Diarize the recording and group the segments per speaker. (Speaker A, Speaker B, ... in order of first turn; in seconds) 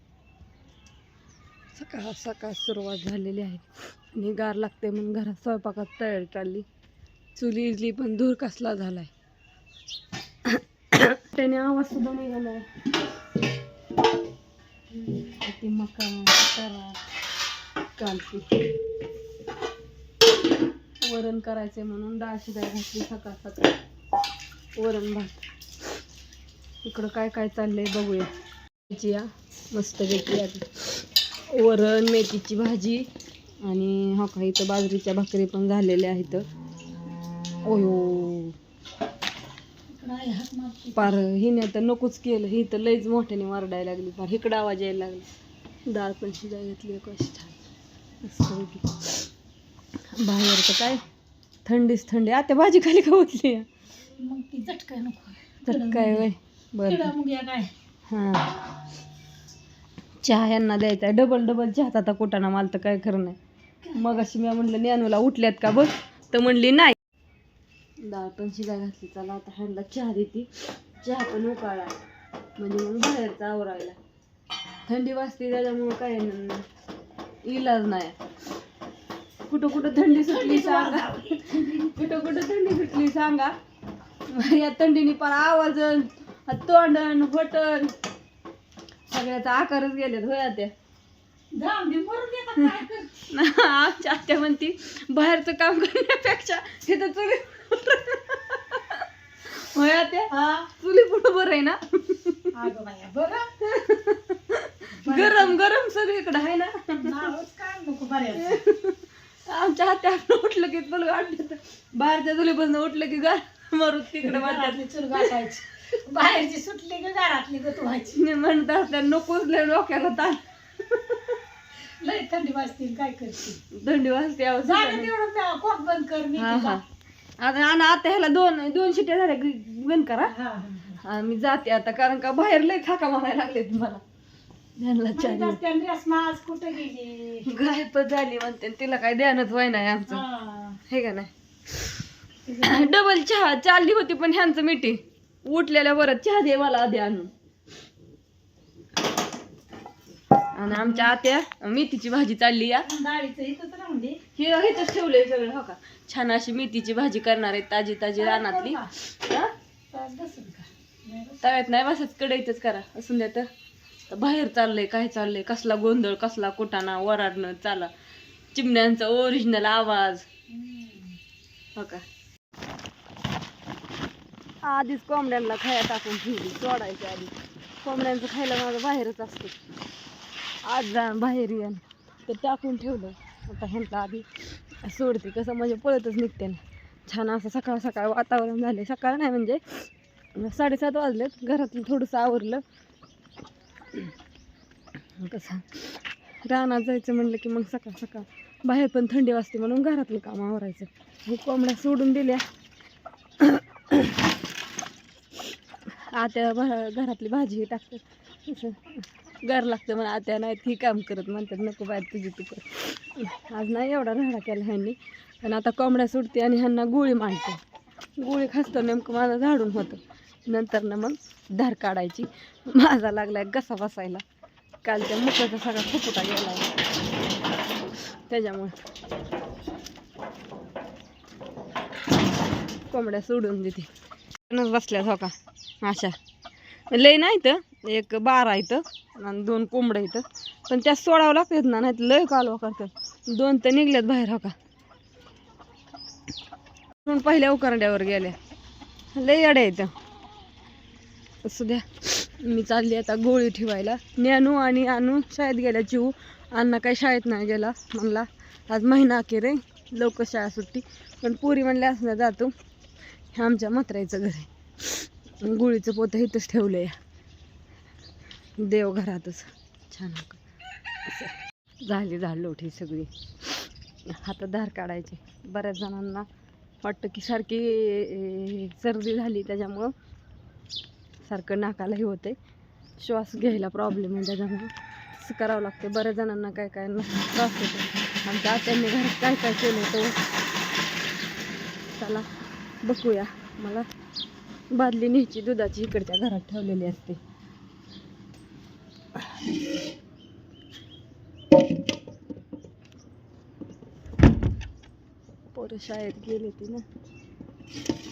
Speaker A: 1.7-6.6, 7.3-9.1, 10.4-12.7, 14.9-17.0, 18.0-18.5, 21.0-23.7, 24.8-25.4, 26.8-28.3, 28.9-33.0, 33.6-36.5, 37.6-38.5, 41.0-45.3, 45.9-47.6, 48.2-49.3, 50.1-51.0, 51.6-53.7, 55.6-57.1, 58.1-58.5, 60.2-63.4, 63.9-67.0, 68.0-72.0, 72.6-74.0, 74.8-76.7, 77.4-78.2, 79.5-83.5, 84.3-87.9, 89.1-90.7, 93.3-102.7, 103.6-107.2, 108.3-115.3, 118.0-121.3, 123.6-125.1, 126.3-126.8, 127.4-130.3, 131.0-134.0, 134.8-135.6, 137.4-140.2, 140.9-142.0, 142.6-147.3, 150.5-152.9, 154.3-159.5, 161.4-163.5, 164.1-167.9, 168.5-170.2, 171.7-172.0, 174.6-179.5, 180.7-192.6, 195.2-202.4, 203.4-204.2, 205.9-217.6, 218.2-224.2, 224.8-226.7, 228.3-228.7, 232.9-233.9, 234.5-236.2, 236.9-244.5, 247.0-248.3, 249.1-249.9, 251.4-262.5, 263.3-266.9, 268.6-270.4, 271.1-276.2, 276.8-279.9, 281.2-282.4, 283.0-290.2, 291.9-292.3, 292.8-293.9, 294.7-297.2, 305.5-306.8
Speaker B: 39.9-41.1, 54.2-56.3, 56.9-57.7, 79.8-81.9, 91.5-93.3, 100.3-100.7, 102.5-103.5, 105.0-105.6, 107.0-108.6, 114.2-118.2, 122.0-123.6, 124.6-126.8, 130.2-131.0, 135.1-137.4, 140.1-140.8, 142.5-142.9, 150.7-151.1, 152.8-154.2, 158.2-158.9, 159.9-161.4, 170.5-171.2